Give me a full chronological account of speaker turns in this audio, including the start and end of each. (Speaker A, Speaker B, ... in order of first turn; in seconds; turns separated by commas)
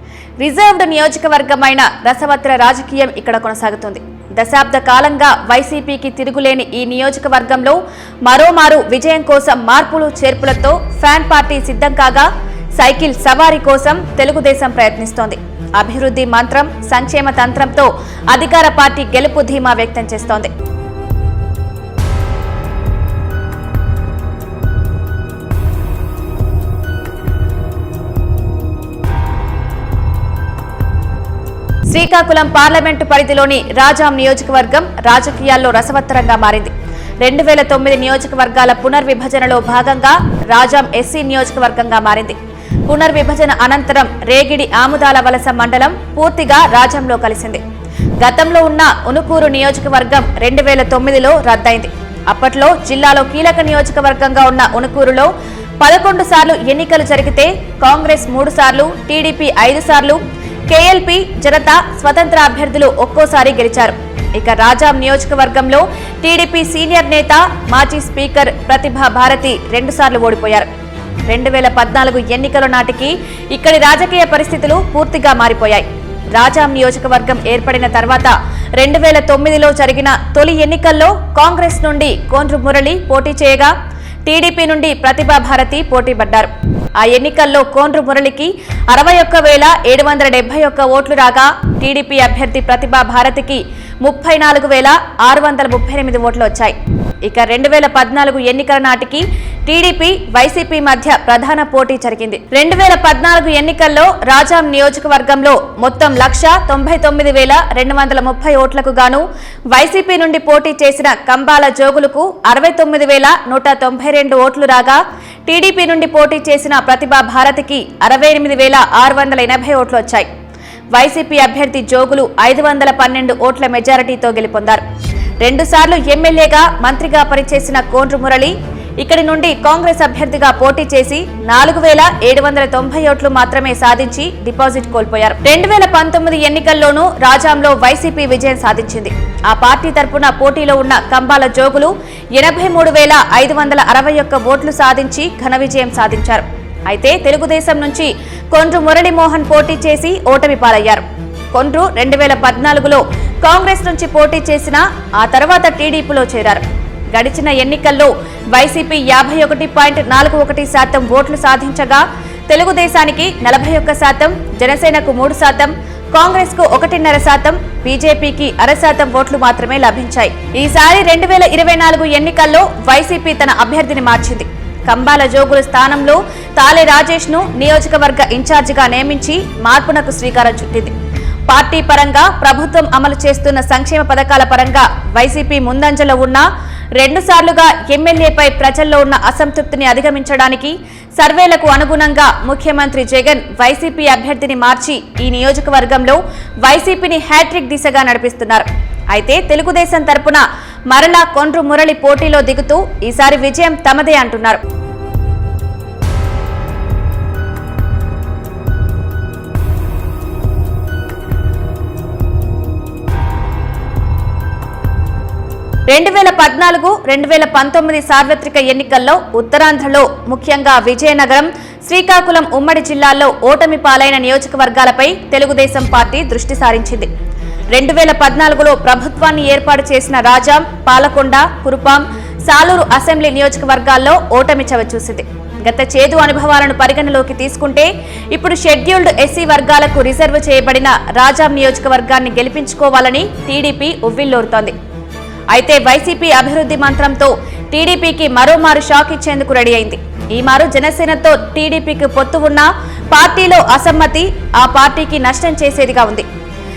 Speaker A: 0.4-20.5, Speaker A: 31.9-47.6, Speaker A: 48.2-55.3, Speaker A: 55.8-60.2, Speaker A: 60.7-70.7, Speaker A: 71.3-83.7, Speaker A: 84.2-120.3, Speaker A: 121.0-124.8, Speaker A: 125.4-180.9, Speaker A: 181.5-204.6, Speaker A: 215.9-227.1, Speaker A: 227.8-244.8, Speaker A: 245.5-256.3